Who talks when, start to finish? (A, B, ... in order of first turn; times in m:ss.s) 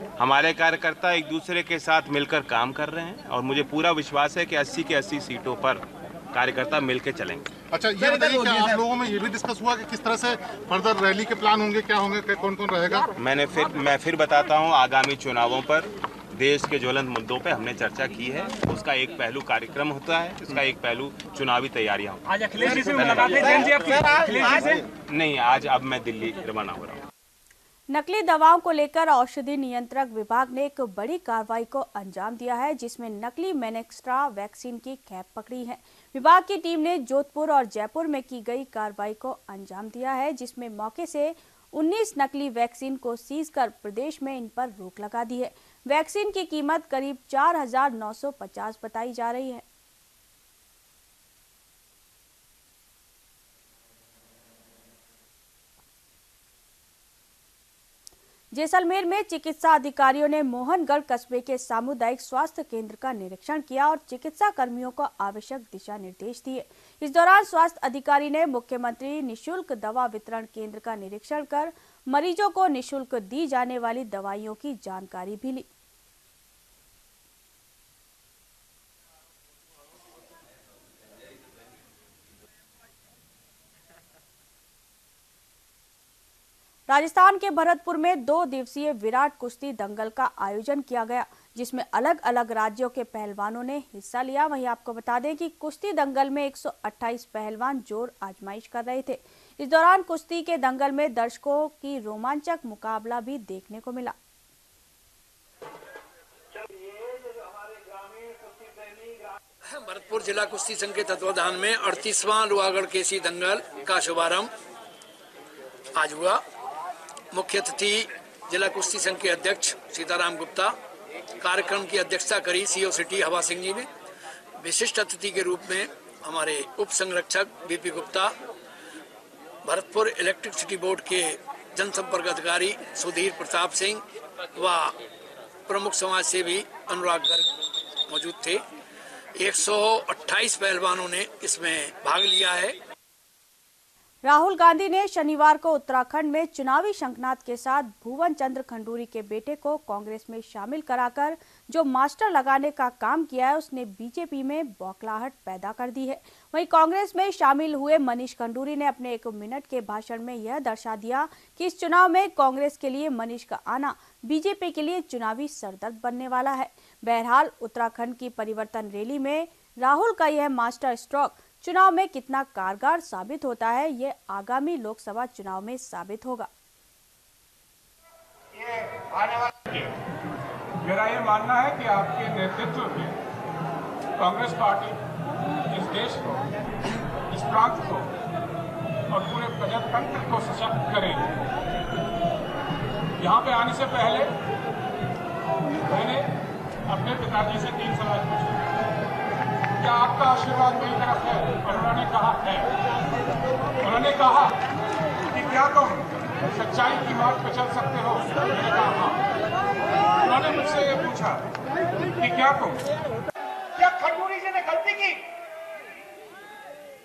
0:00.2-0:07.5 A
0:07.7-0:13.0 B
0:08.1-0:08.8 A
0:13.2-0:27.0 A
0:22.2-0:24.8 C
0:27.9-0:49.6 D
0:58.5-1:15.7 D
1:26.9-1:44.1 D
1:49.7-1:54.5 E
1:55.9-1:56.4 E
1:57.3-2:00.7 E
2:01.4-2:03.9 E
2:04.6-2:08.3 E
2:09.6-2:14.0 E
2:14.6-2:15.0 E
2:15.7-2:17.5 E
2:18.1-2:18.6 E
2:19.4-2:22.7 E
2:24.2-2:56.5 D
2:58.6-2:59.8 F
3:00.8-3:03.2 C
3:04.2-3:05.0 C
3:05.7-3:06.4 C
3:07.3-3:08.1 C
3:09.1-3:11.4 C
3:13.2-3:14.3 C
3:15.8-3:16.3 C
3:16.9-3:18.6 C
3:19.8-3:22.7 C
3:23.8-3:24.6 C
3:25.3-3:29.2 C
3:30.2-3:31.4 C
3:32.2-3:32.9 C
3:33.8-3:35.2 F